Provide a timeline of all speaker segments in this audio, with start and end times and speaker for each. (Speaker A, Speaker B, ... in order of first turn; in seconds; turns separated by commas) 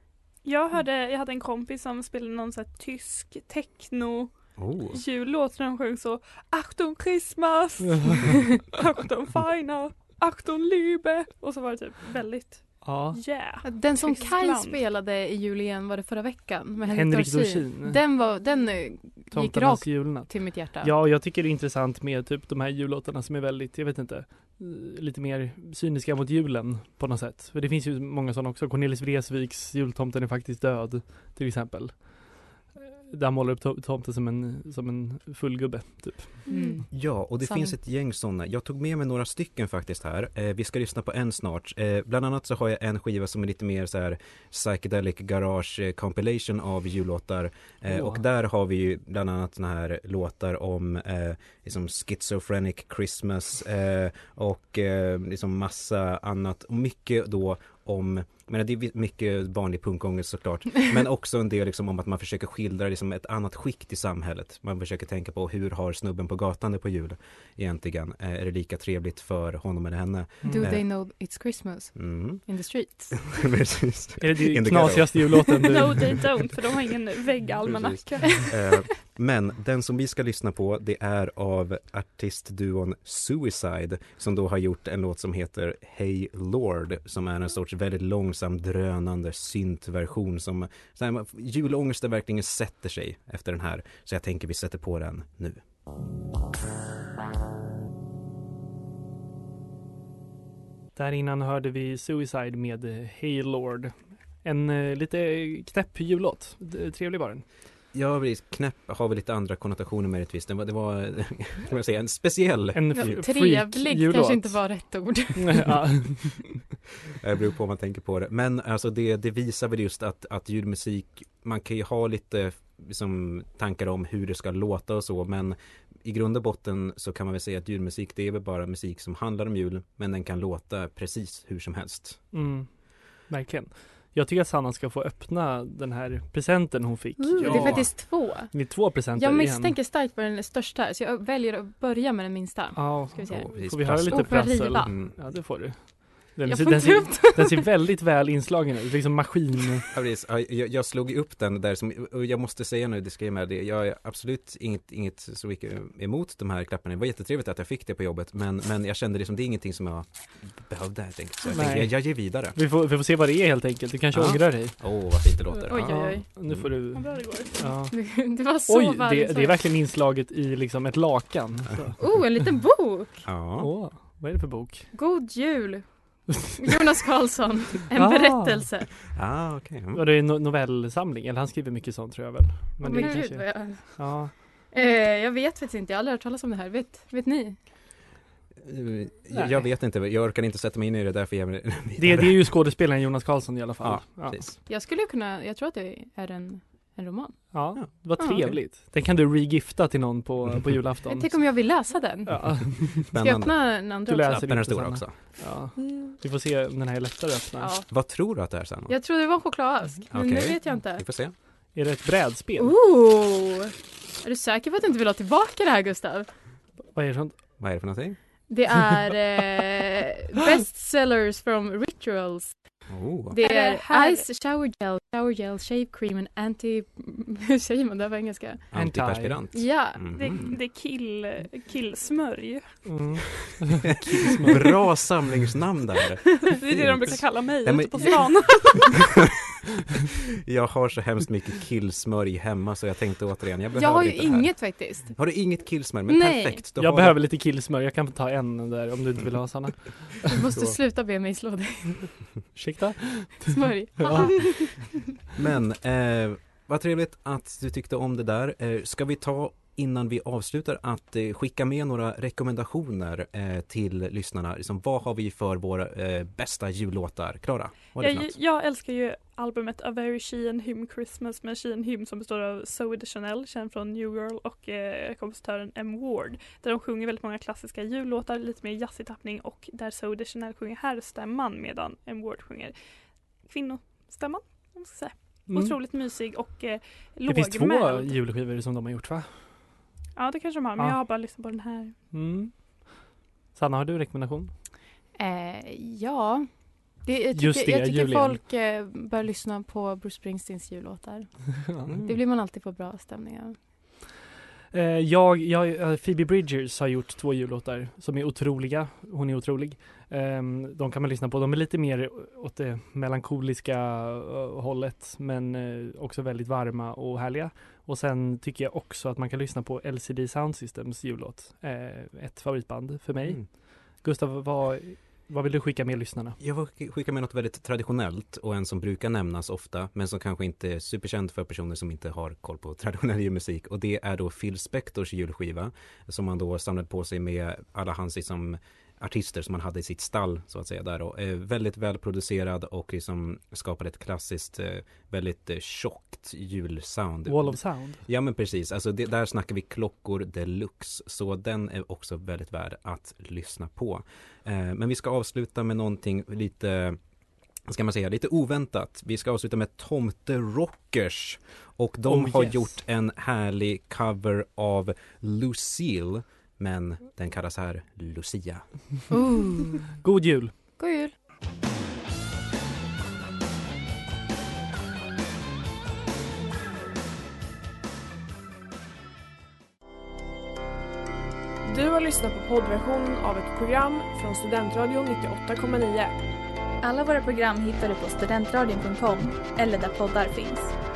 Speaker A: 0.4-14.8, Speaker B: 4.6-5.0, Speaker C: 12.8-13.2, Speaker D: 13.6-20.9, Speaker C: 16.9-18.0, Speaker C: 19.3-36.4, Speaker D: 36.5-37.8, Speaker A: 36.5-36.8, Speaker B: 36.9-70.9, Speaker C: 47.9-48.2, Speaker C: 70.4-70.7, Speaker D: 70.5-73.5, Speaker B: 72.0-76.1, Speaker C: 74.2-76.2, Speaker A: 75.7-78.7, Speaker B: 77.6-95.6, Speaker C: 101.0-107.5, Speaker B: 107.9-113.2, Speaker C: 112.7-114.7, Speaker D: 112.9-116.0, Speaker C: 115.4-116.6, Speaker B: 117.2-132.3, Speaker C: 132.3-139.8, Speaker D: 137.2-145.2, Speaker B: 137.4-137.9, Speaker C: 142.8-149.8, Speaker B: 143.3-145.3, Speaker D: 146.4-147.6, Speaker B: 149.9-162.6, Speaker C: 161.5-172.0, Speaker B: 164.1-166.7, Speaker D: 165.7-166.2, Speaker A: 166.9-167.7, Speaker D: 167.9-169.6, Speaker B: 171.7-172.2, Speaker D: 172.0-173.3, Speaker B: 173.2-173.9, Speaker C: 173.6-174.9, Speaker D: 174.9-178.9, Speaker C: 178.0-178.7, Speaker B: 179.1-180.1, Speaker C: 179.9-184.3, Speaker D: 182.8-187.6, Speaker B: 188.6-192.7, Speaker C: 189.3-189.7, Speaker C: 192.0-194.4, Speaker B: 193.8-194.6, Speaker D: 194.7-198.5, Speaker C: 197.5-203.1, Speaker B: 197.8-198.6, Speaker D: 201.1-204.5, Speaker B: 203.1-205.4, Speaker C: 204.1-207.7, Speaker E: 205.8-206.1, Speaker D: 207.6-207.9, Speaker B: 207.9-208.9, Speaker D: 208.9-211.1, Speaker B: 210.1-211.3, Speaker C: 211.7-212.7, Speaker D: 212.6-216.3, Speaker C: 216.8-217.4, Speaker B: 217.6-218.2, Speaker D: 218.5-228.7, Speaker B: 222.9-223.4, Speaker A: 223.4-224.2, Speaker B: 228.7-230.6, Speaker C: 228.7-229.5, Speaker D: 229.5-230.0, Speaker A: 230.2-233.3, Speaker C: 232.9-234.5, Speaker B: 233.9-238.7, Speaker A: 236.5-239.1, Speaker B: 240.4-247.2, Speaker D: 243.8-245.3, Speaker D: 246.1-246.6, Speaker C: 246.8-250.2, Speaker D: 250.3-252.2, Speaker C: 252.5-254.8, Speaker D: 253.5-254.9, Speaker B: 255.3-268.4, Speaker A: 268.0-288.1, Speaker C: 285.5-285.8, Speaker C: 287.3-289.8, Speaker A: 290.2-292.0, Speaker C: 292.1-294.5, Speaker D: 295.1-303.6, Speaker C: 297.3-298.4, Speaker C: 301.7-302.1, Speaker B: 301.9-302.1, Speaker C: 304.7-326.4, Speaker B: 323.2-323.5, Speaker B: 326.4-357.0, Speaker C: 347.3-348.1, Speaker B: 357.6-368.8, Speaker C: 362.1-362.8, Speaker D: 369.1-369.9, Speaker C: 370.0-370.5, Speaker D: 370.8-371.1, Speaker F: 381.6-386.1, Speaker E: 386.8-390.8